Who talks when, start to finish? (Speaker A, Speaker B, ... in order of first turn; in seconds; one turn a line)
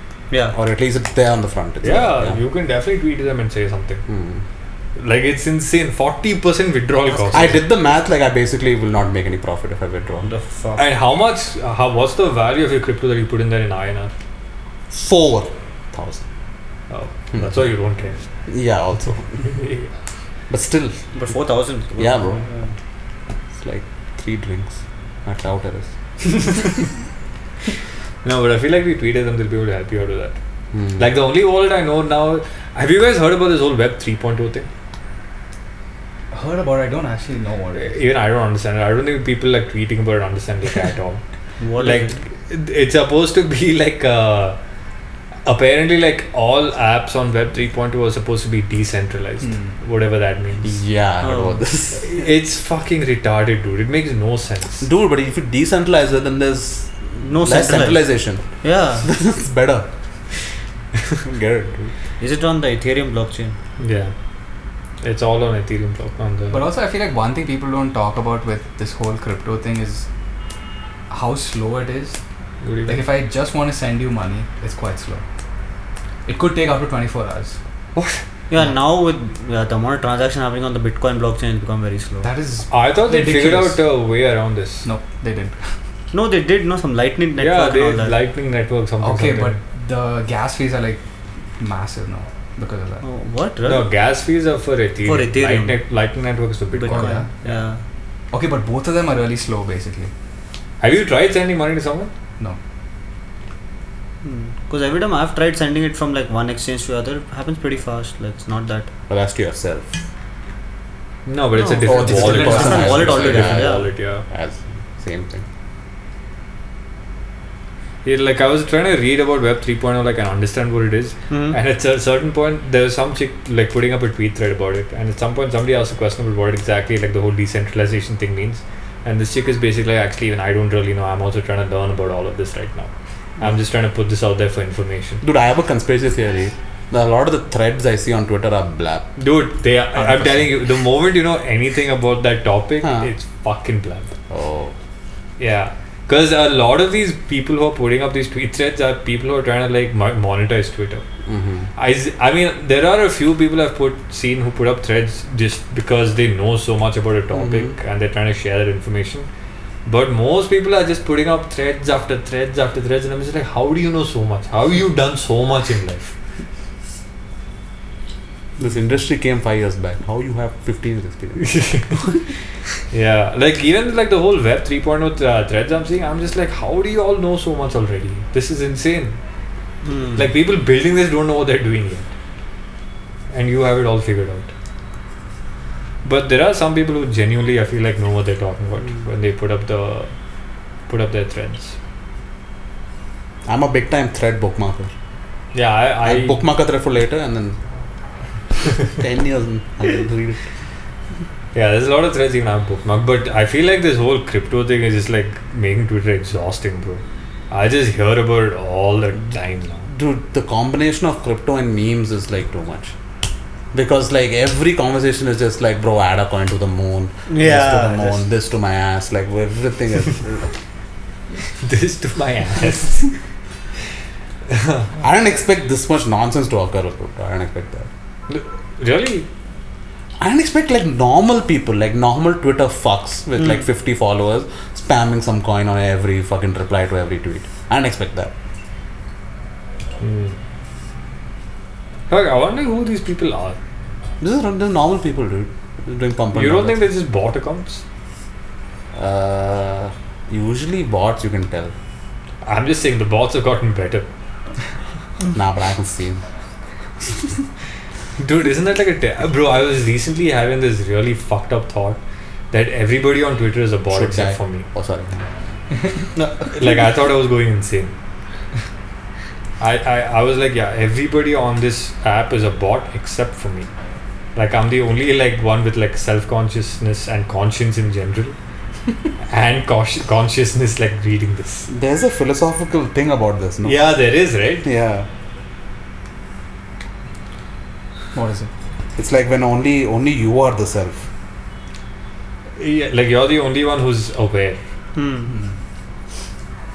Speaker A: 0.5-2.4
Speaker B: 1.8-4.0
Speaker A: 4.1-4.4
Speaker B: 5.0-7.6
Speaker A: 7.3-10.3
Speaker C: 10.2-10.8
Speaker B: 10.8-14.1
Speaker A: 14.9-16.2
Speaker B: 16.9-18.2
Speaker A: 17.3-17.7
Speaker A: 18.5-19.6
Speaker B: 19.4-19.9
Speaker A: 20.5-21.0
Speaker C: 21.1-22.7
Speaker A: 22.0-22.4
Speaker A: 23.6-25.9
Speaker B: 28.2-30.4
Speaker A: 30.7-31.1
Speaker B: 30.9-34.7
Speaker D: 36.3-38.0
Speaker B: 37.8-41.2
Speaker C: 41.6-42.2
Speaker B: 41.8-44.6
Speaker B: 45.5-50.7
Speaker D: 49.4-49.8
Speaker A: 50.6-52.2
Speaker C: 51.2-51.6
Speaker B: 52.0-54.9
Speaker A: 54.8-58.4
Speaker C: 57.2-59.1
Speaker A: 59.0-59.9
Speaker A: 61.2-61.9
Speaker C: 62.2-63.6
Speaker B: 63.8-64.1
Speaker B: 65.0-66.7
Speaker D: 66.5-70.0
Speaker D: 71.1-72.2
Speaker B: 72.6-73.1
Speaker D: 72.8-75.2
Speaker D: 76.3-77.6
Speaker B: 78.0-78.2
Speaker C: 78.5-82.3
Speaker D: 82.2-83.8
Speaker B: 82.7-84.9
Speaker D: 84.8-85.6
Speaker C: 86.1-88.2
Speaker B: 87.4-89.6
Speaker D: 89.0-91.0
Speaker D: 91.6-93.0
Speaker C: 93.0-93.9
Speaker B: 93.6-97.6
Speaker C: 95.0-95.8
Speaker C: 96.7-97.8
Speaker D: 96.8-97.3
Speaker D: 98.3-100.1
Speaker B: 100.8-102.1
Speaker C: 104.2-108.9
Speaker A: 109.1-110.0
Speaker B: 111.2-114.2
Speaker C: 111.6-113.9
Speaker D: 111.8-113.2
Speaker A: 111.8-115.4
Speaker B: 118.0-135.2
Speaker C: 121.3-121.6
Speaker A: 135.2-139.1
Speaker B: 139.2-144.1
Speaker D: 139.9-140.5
Speaker A: 142.8-143.1
Speaker A: 144.3-144.8
Speaker B: 145.4-151.0
Speaker A: 151.2-151.7
Speaker B: 151.8-159.3
Speaker A: 157.3-157.7
Speaker B: 159.8-166.1
Speaker A: 168.6-171.6
Speaker B: 171.4-172.0
Speaker B: 172.9-179.2
Speaker C: 179.8-180.3
Speaker B: 180.2-182.1
Speaker B: 183.3-184.5
Speaker B: 186.0-190.1
Speaker B: 190.9-191.8
Speaker A: 193.5-194.9
Speaker B: 195.5-196.4
Speaker A: 196.0-197.6
Speaker A: 198.8-200.4
Speaker B: 201.5-209.9
Speaker A: 209.9-212.9
Speaker A: 213.7-220.5
Speaker C: 217.3-218.2
Speaker B: 221.6-223.1
Speaker B: 224.5-224.9
Speaker A: 225.0-227.9
Speaker B: 228.3-229.3
Speaker A: 230.2-238.3
Speaker B: 240.0-240.3
Speaker B: 242.1-243.6
Speaker A: 244.2-246.8
Speaker B: 246.3-247.8
Speaker A: 248.9-251.7
Speaker B: 252.4-254.1
Speaker A: 255.3-256.2
Speaker B: 258.2-264.6
Speaker A: 263.9-265.3
Speaker B: 266.4-267.9
Speaker B: 269.6-273.7
Speaker B: 274.4-278.4
Speaker B: 279.2-281.7
Speaker A: 281.7-283.9
Speaker B: 283.6-284.7
Speaker A: 284.6-285.1
Speaker D: 288.1-288.5
Speaker A: 289.0-291.1
Speaker B: 292.6-294.6
Speaker C: 294.9-295.3
Speaker D: 295.3-295.6